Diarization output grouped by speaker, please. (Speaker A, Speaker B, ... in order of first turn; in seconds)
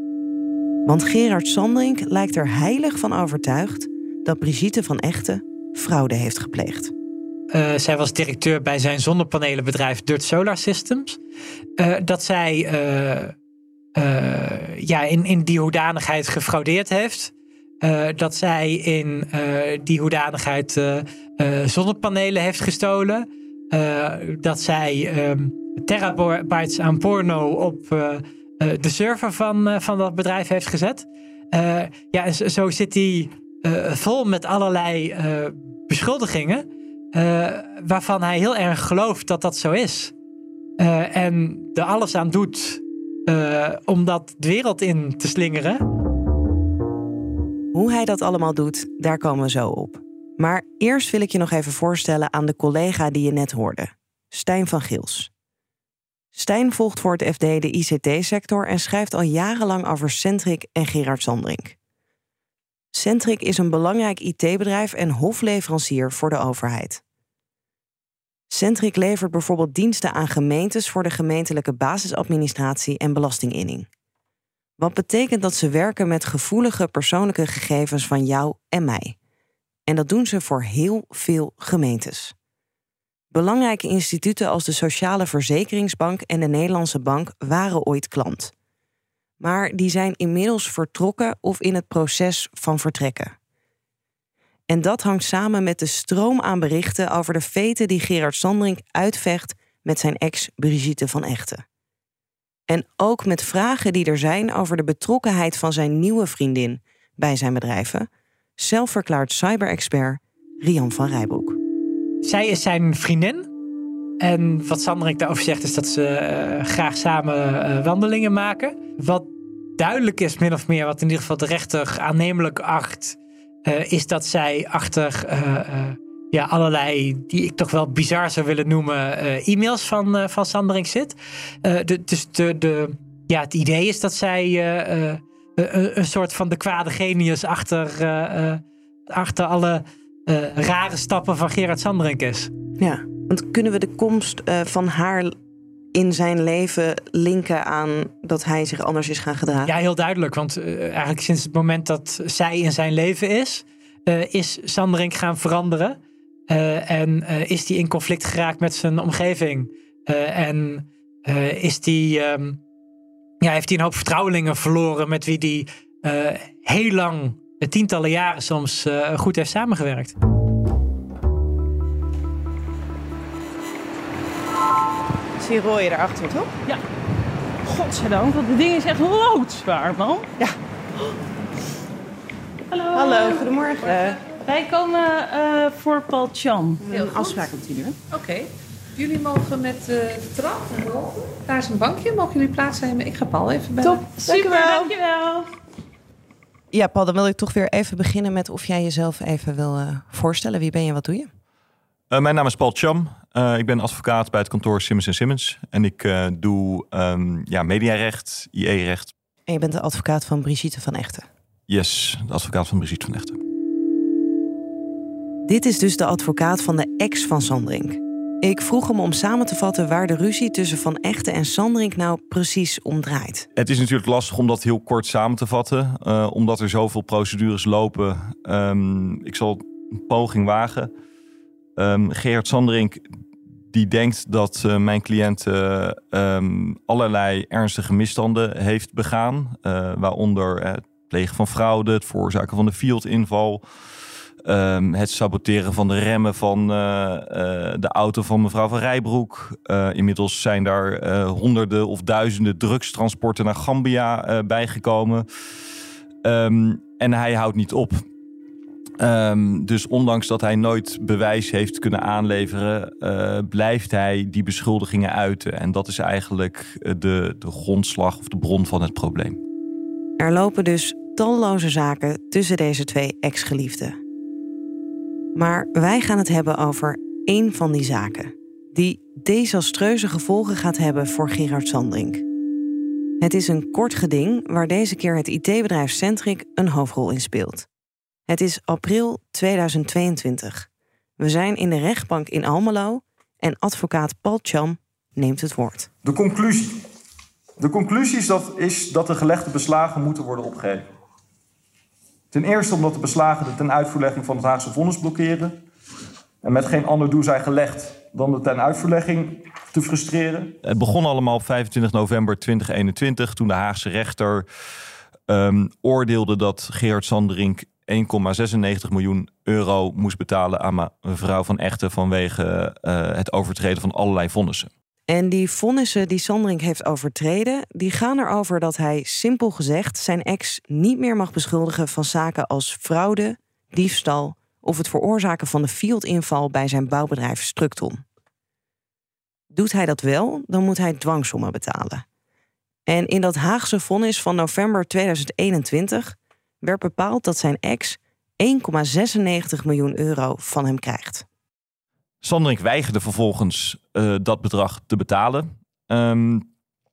Speaker A: 0.8-6.9, 47.7-55.3, 56.3-61.8, 62.9-67.0, 68.5-73.9, 74.8-79.2, 79.9-82.3, 83.3-88.5, 89.4-93.3, 94.7-101.6, 102.7-108.1, 108.6-111.6, 142.8-145.3, 145.9-149.7, 175.4-176.5, 182.9-184.2, 186.8-188.0, 194.3-194.9, 196.7-201.3, 209.5-211.2, 215.4-223.5, 270.2-274.0, 275.3-282.2, 283.2-287.7, 288.3-290.7, 291.2-295.9, 325.1-338.0, 339.5-342.0, 342.9-351.2
Speaker B: 7.5-11.2, 11.8-13.3, 13.9-40.1, 40.8-45.8, 112.2-113.5, 114.2-142.5, 149.7-162.6, 163.4-170.1
Speaker C: 177.6-180.3, 182.7-186.8, 193.8-195.4
Speaker D: 186.9-187.5, 188.1-194.1
Speaker E: 202.1-209.1, 211.7-213.4, 223.6-230.9, 231.8-233.1, 233.7-243.6, 244.4-255.2, 256.2-258.0, 259.0-269.4, 310.6-314.4, 315.3-324.7, 352.2-356.5
Speaker F: 296.0-296.8, 297.6-300.9, 302.3-305.6, 306.4-310.5